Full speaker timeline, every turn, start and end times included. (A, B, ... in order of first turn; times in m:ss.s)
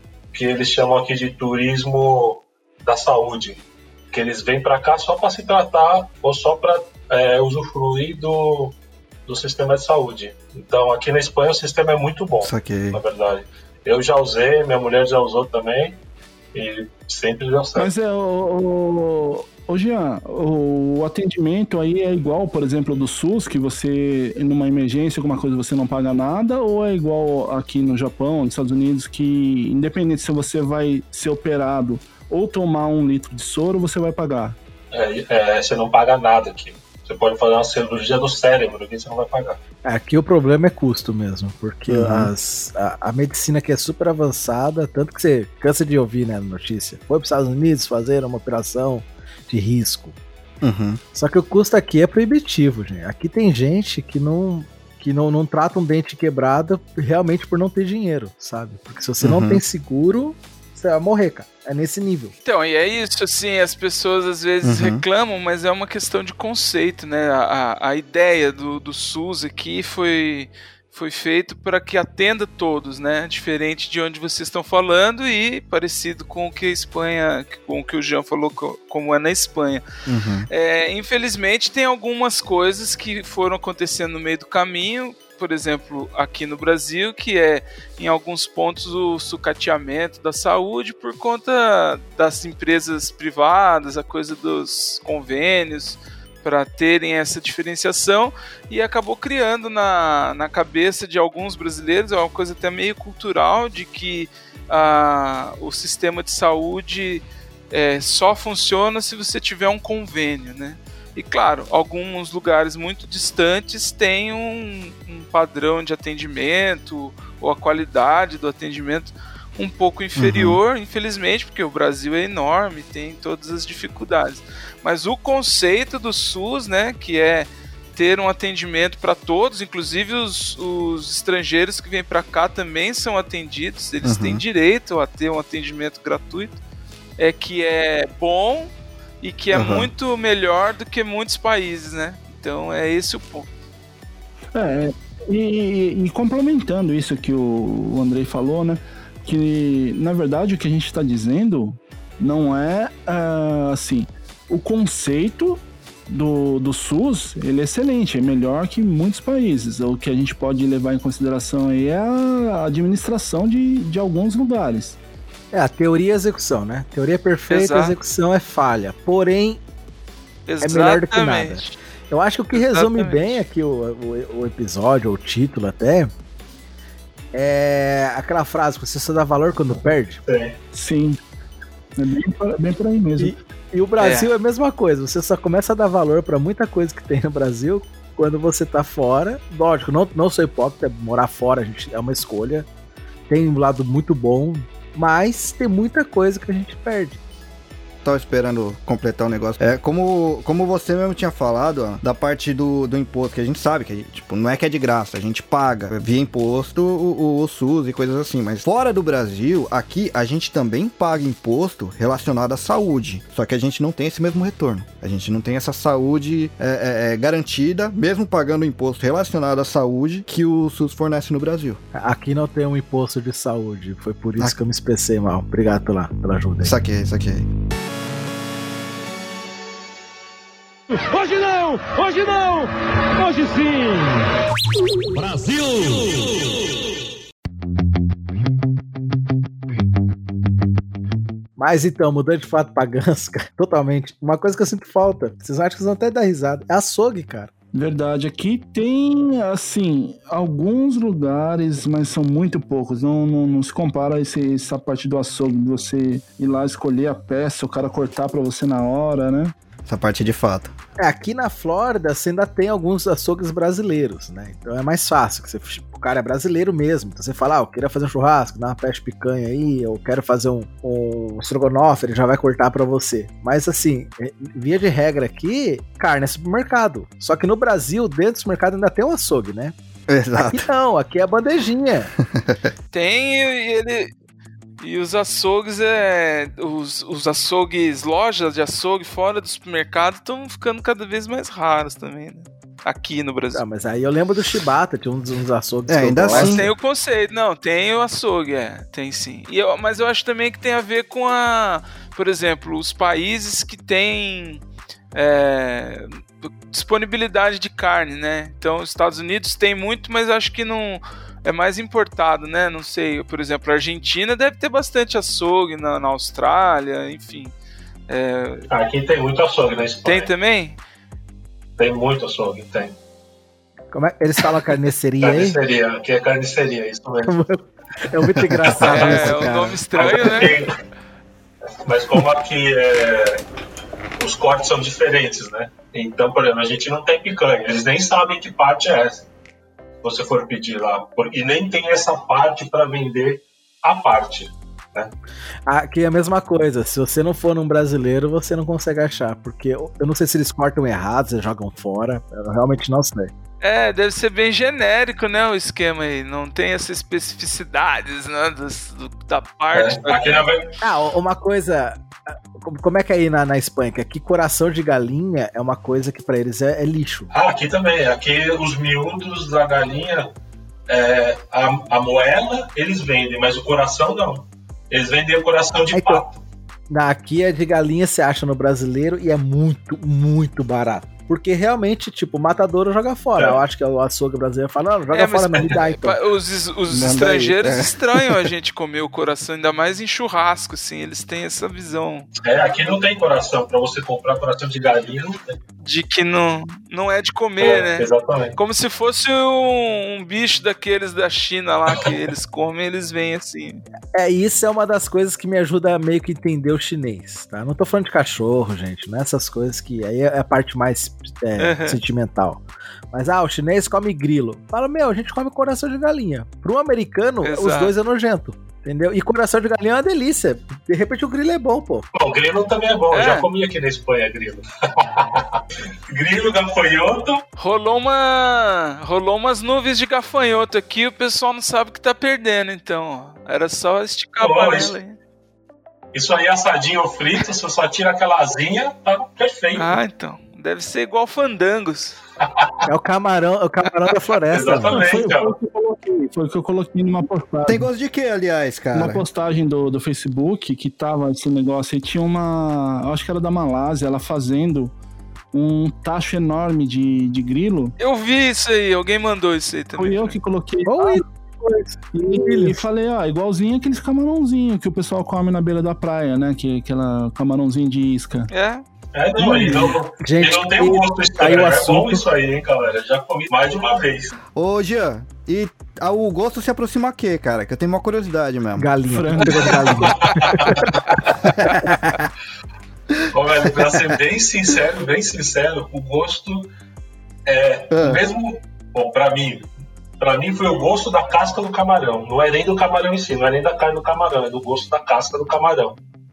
0:00.3-0:08.8 A
0:09.3-0:16.0 A
0:12.4-0:13.0 B
0:16.5-0:17.9 A
0:17.8-0:34.6 C
0:34.9-0:39.6 A
0:39.8-0:50.2 D
0:41.9-0:42.3 B
0:50.6-0:51.0 B
0:51.1-1:02.3 D
0:59.2-0:59.6 B
1:02.4-1:19.8 E
1:04.6-1:05.0 B
1:20.0-1:20.5 B
1:20.5-2:16.6 E
2:00.2-2:00.6 B
2:14.0-2:14.4 B
2:17.2-2:23.5 E
2:19.5-2:19.9 B
2:24.5-2:45.0 C
2:45.5-2:49.6 D
2:47.5-2:47.9 E
2:50.5-2:51.8 E
2:50.6-2:56.1 D
2:52.5-2:53.4 E
2:57.3-3:00.2 D
3:00.2-3:00.6 A
3:00.7-3:01.2 C
3:02.0-3:03.4 C
3:03.2-3:12.6 D
3:04.0-3:04.3 E
3:13.3-3:17.2 D
3:18.0-3:41.8 B
3:41.9-3:46.7 D
3:46.6-3:47.4 B
3:50.9-3:54.3 F
3:55.1-3:56.6 F
4:01.6-4:07.5 D
4:07.7-4:19.5 C
4:19.8-4:20.7 B
4:21.0-4:39.7 D
4:40.1-4:40.7 B
4:40.4-4:42.1 D
4:42.3-4:42.6 B
4:42.9-4:44.1 E
4:44.8-4:53.6 E
4:53.5-4:56.7 D
4:55.9-4:56.7 B
4:56.3-5:04.6 E
5:05.1-5:17.5 E
5:18.1-5:18.7 E
5:18.7-5:20.3 A
5:20.0-5:20.8 E
5:21.8-5:23.0 A
5:23.9-5:25.6 D
5:25.2-5:27.3 A
5:27.3-5:30.4 D
5:28.7-5:29.4 A
5:28.8-5:30.6 E
5:30.0-5:30.7 A
5:31.8-5:33.4 A
5:34.2-5:39.3 A
5:40.0-5:45.1 A
5:45.7-5:53.3 D
5:53.6-6:00.5 E
5:59.7-6:00.8 A
6:00.8-6:02.0 D
6:02.6-6:07.3 D
6:07.3-6:10.3 A
6:10.9-6:16.4 A
6:15.9-6:16.2 D
6:16.9-6:26.2 D
6:23.4-6:23.6 A
6:25.1-6:32.3 E
6:26.9-6:28.4 B
6:32.4-6:35.6 A
6:35.8-6:43.8 E
6:37.6-6:38.6 A
6:44.1-7:02.0 D
6:51.6-6:52.0 E
6:57.4-6:57.9 E
7:02.1-7:07.4 A
7:03.1-7:03.5 E
7:07.6-7:15.2 E
7:14.4-7:14.9 A
7:16.1-7:20.0 A
7:19.7-7:22.2 E
7:22.4-7:22.7 A
7:22.8-7:25.0 D
7:24.5-7:25.5 A
7:24.9-7:27.9 C
7:27.7-7:29.2 B
7:28.9-7:34.9 C
7:35.5-7:37.9 C
7:38.0-7:40.4 E
7:40.0-7:41.2 C
7:40.9-7:42.8 D
7:42.1-7:48.5 C
7:48.5-7:48.8 E
7:49.1-7:54.3 A
7:49.4-7:52.2 D
7:54.5-7:58.9 B
7:58.8-8:00.9 D
7:59.1-8:00.2 C
8:00.0-8:01.0 A
8:01.6-8:02.3 B
8:03.3-8:06.7 A
8:07.4-8:09.7 A
8:07.9-8:08.2 B
8:10.2-8:16.0 A